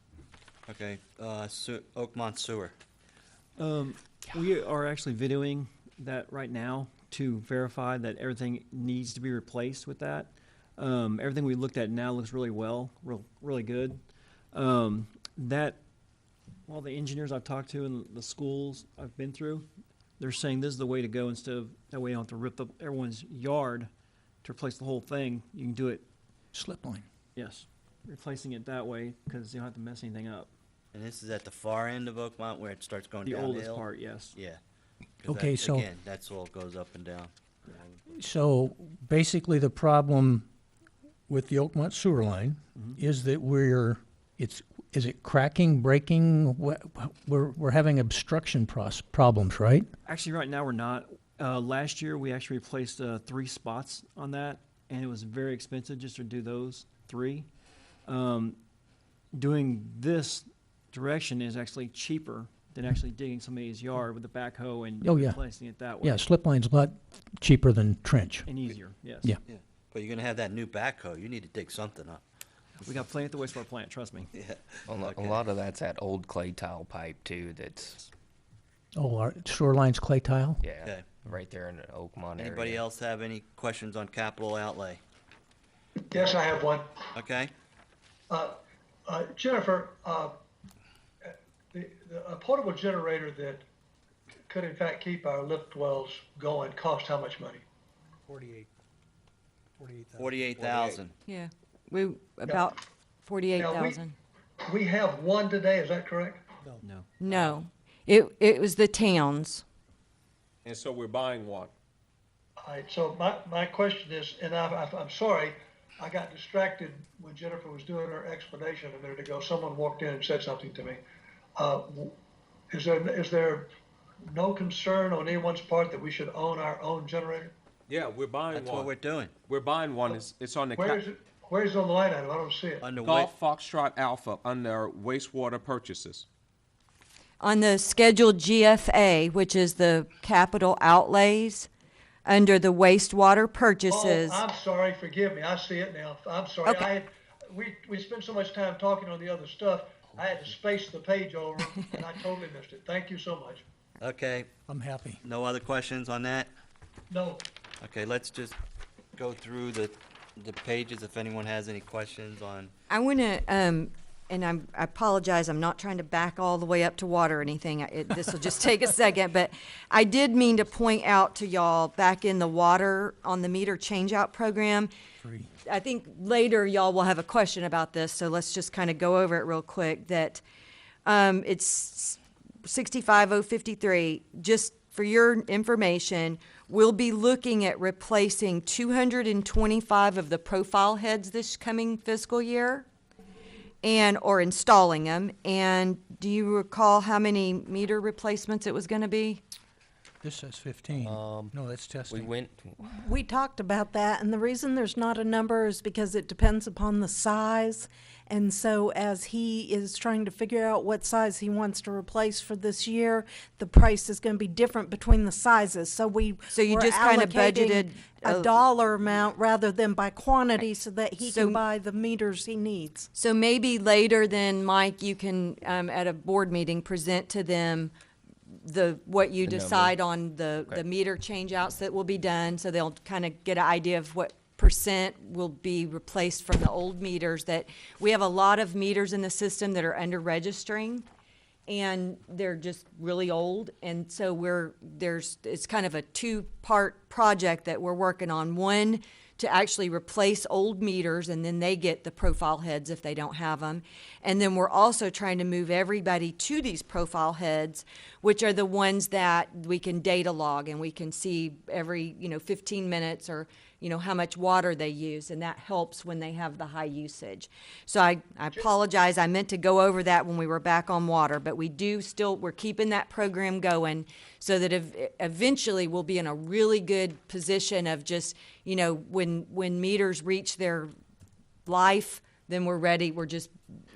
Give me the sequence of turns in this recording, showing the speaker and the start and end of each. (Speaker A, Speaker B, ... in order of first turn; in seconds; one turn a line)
Speaker A: 0.7-2.8
Speaker B: 3.6-14.0
Speaker B: 14.5-15.8
Speaker B: 16.7-19.7
Speaker B: 20.2-23.9
Speaker B: 24.4-26.1
Speaker C: 26.5-27.1
Speaker B: 27.4-30.5
Speaker A: 30.9-34.6
Speaker B: 33.2-34.4
Speaker A: 35.2-38.0
Speaker C: 35.3-35.9
Speaker C: 38.1-40.5
Speaker C: 41.3-49.9
Speaker B: 50.1-57.5
Speaker B: 58.1-58.6
Speaker B: 59.4-66.2
Speaker C: 65.0-65.4
Speaker C: 66.0-68.5
Speaker B: 68.5-69.3
Speaker A: 69.5-72.2
Speaker B: 72.8-74.3
Speaker A: 74.3-75.5
Speaker D: 74.9-78.1
Speaker C: 79.0-80.6
Speaker D: 80.6-82.8
Speaker A: 82.4-85.0
Speaker E: 86.1-87.1
Speaker A: 87.1-87.5
Speaker E: 88.3-90.3
Speaker E: 91.2-93.7
Speaker E: 94.5-97.6
Speaker C: 98.3-98.7
Speaker C: 99.8-100.3
Speaker A: 100.2-101.1
Speaker F: 100.6-100.9
Speaker G: 101.3-104.2
Speaker E: 103.6-104.0
Speaker E: 104.7-106.5
Speaker B: 106.8-107.5
Speaker G: 107.2-109.6
Speaker F: 110.7-111.7
Speaker E: 112.6-121.0
Speaker E: 121.6-122.2
Speaker E: 122.7-123.7
Speaker E: 124.3-127.5
Speaker F: 127.9-128.9
Speaker A: 128.5-129.3
Speaker F: 129.5-131.0
Speaker E: 130.8-132.9
Speaker A: 132.8-133.3
Speaker F: 133.1-136.3
Speaker G: 137.4-141.7
Speaker G: 142.3-144.4
Speaker E: 143.9-153.6
Speaker A: 154.0-154.5
Speaker C: 154.7-155.2
Speaker A: 155.2-156.5
Speaker E: 157.1-157.5
Speaker A: 157.8-158.6
Speaker A: 159.2-162.7
Speaker G: 162.9-174.9
Speaker C: 175.2-175.5
Speaker G: 175.7-180.4
Speaker G: 181.1-192.9
Speaker G: 193.8-199.4
Speaker C: 200.2-202.3
Speaker D: 201.0-201.5
Speaker D: 202.1-203.0
Speaker H: 203.0-223.1
Speaker G: 216.5-218.5
Speaker G: 221.2-221.6
Speaker G: 223.2-227.9
Speaker G: 228.5-241.1
Speaker D: 229.4-230.0
Speaker G: 241.7-280.9
Speaker G: 281.7-283.5